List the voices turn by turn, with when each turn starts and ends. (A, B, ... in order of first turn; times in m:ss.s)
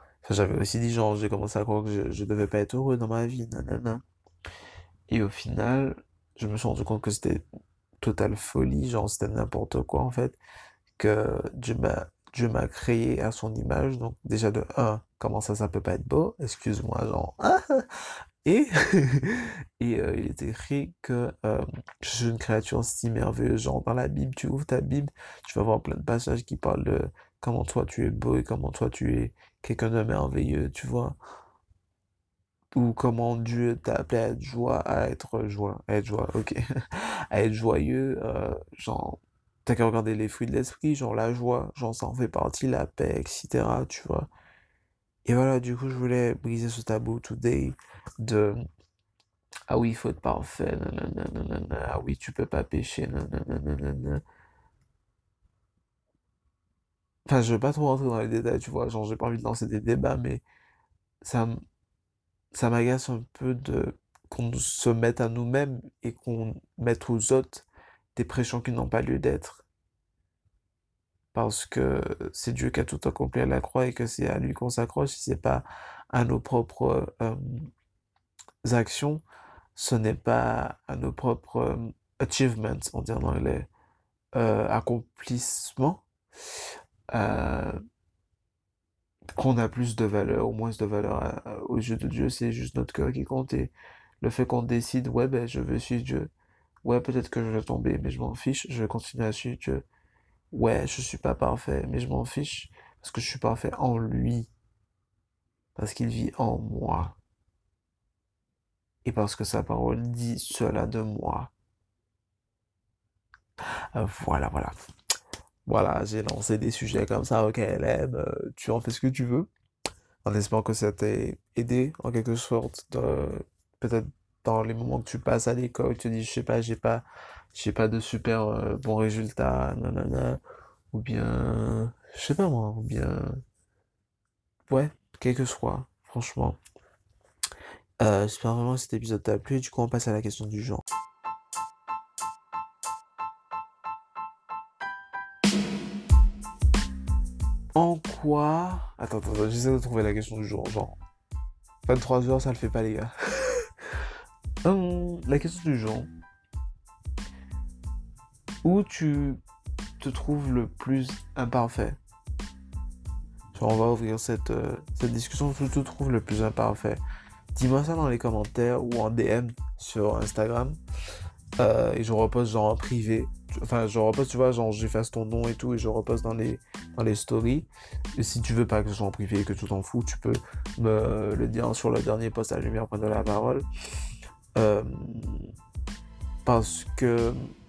0:00.2-0:04.0 A
0:05.1-0:07.4 A
0:08.0-0:10.4 A
0:11.0-0:17.8 A
0:18.4-0:31.2 A
0:32.7-0:44.3 A
0:45.2-0:48.6 A
0:49.7-0:54.2 A
0:57.2-1:00.4 A
1:01.2-1:01.6 A
1:02.5-1:09.6 A
1:11.3-1:17.6 A
1:18.6-1:19.2 A
1:19.7-1:23.7 A
1:24.3-1:26.0 A
1:27.1-1:27.8 A
1:29.4-1:36.3 A
1:36.8-1:39.8 A
1:40.5-1:44.5 A
1:45.8-1:47.2 A
1:49.0-1:51.5 A
1:53.9-1:54.7 A
1:55.6-1:59.5 A
2:00.2-2:13.4 A
2:14.7-2:16.6 A
2:18.0-2:20.8 A
2:27.7-2:31.0 A
2:31.8-2:33.7 A
2:34.6-2:36.1 A
2:38.6-2:39.4 A
2:40.0-2:42.0 A
2:43.5-2:47.0 A
2:47.5-2:50.8 A
2:51.6-3:03.6 A
3:04.6-3:05.5 A
3:06.4-3:07.4 A